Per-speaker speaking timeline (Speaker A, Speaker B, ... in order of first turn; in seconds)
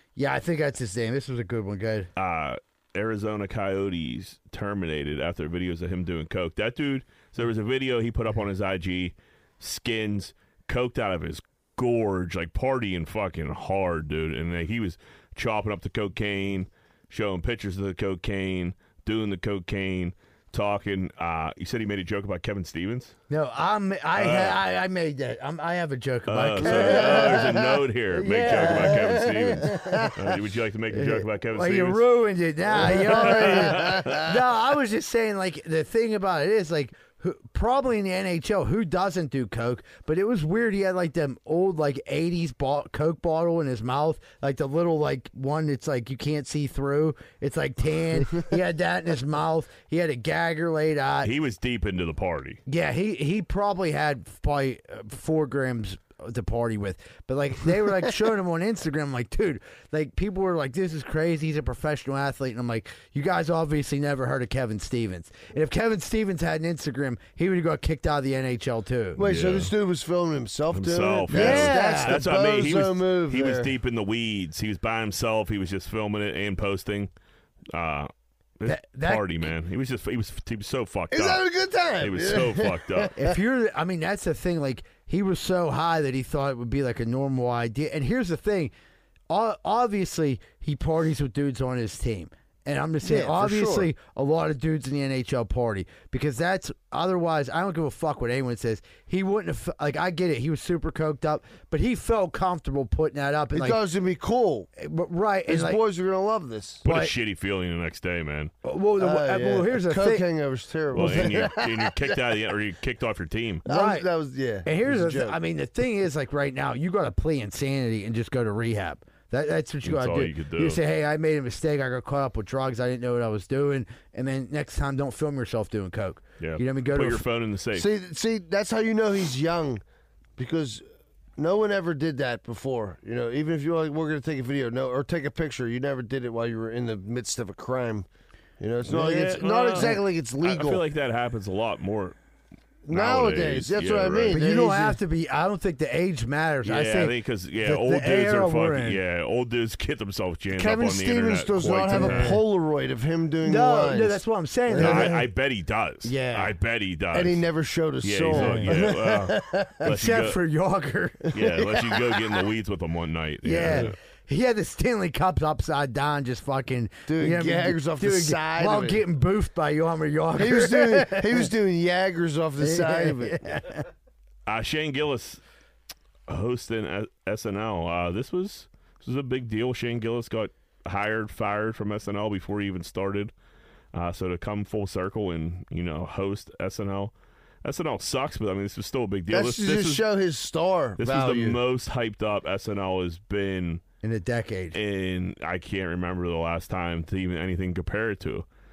Speaker A: 0.1-2.1, 23.3-27.6, 28.1-30.1, 30.9-51.3, 52.7-69.2, 71.3-72.2, 78.7-79.5, 83.2-88.7, 89.3-103.8, 104.8-105.8, 106.8-107.1, 108.6-110.2, 113.7-114.1, 114.6-127.2, 144.3-149.0, 151.9-152.4, 153.4-155.2, 156.0-156.5, 158.3-159.1, 159.8-161.3, 163.4-171.5, 172.6-173.8, 194.0-194.8
Speaker B: 2.2-23.1, 24.1-24.6, 26.3-32.0, 33.0-34.2, 51.2-52.6, 69.2-69.7, 70.7-77.1, 77.7-81.4, 82.0-83.1, 106.8-108.5, 110.9-113.6, 119.8-120.8, 126.4-127.9, 138.8-142.2, 142.9-144.4, 146.6-152.4, 154.7-157.4, 158.0-160.4, 161.3-163.9, 174.4-175.4, 176.3-183.3, 183.9-187.1, 187.6-190.0, 191.0-193.8, 194.7-198.4
Speaker C: 26.6-27.8, 29.7-30.1, 32.7-34.4, 69.2-73.7, 81.1-83.3, 93.0-93.9, 103.5-104.7, 105.5-106.8, 109.0-112.3, 113.6-115.4, 127.7-129.8, 130.4-130.8, 131.4-138.1, 138.6-140.8, 142.9-145.0, 150.5-155.2, 157.1-159.9, 161.3-162.4, 167.1-169.0, 170.3-173.4, 189.3-191.6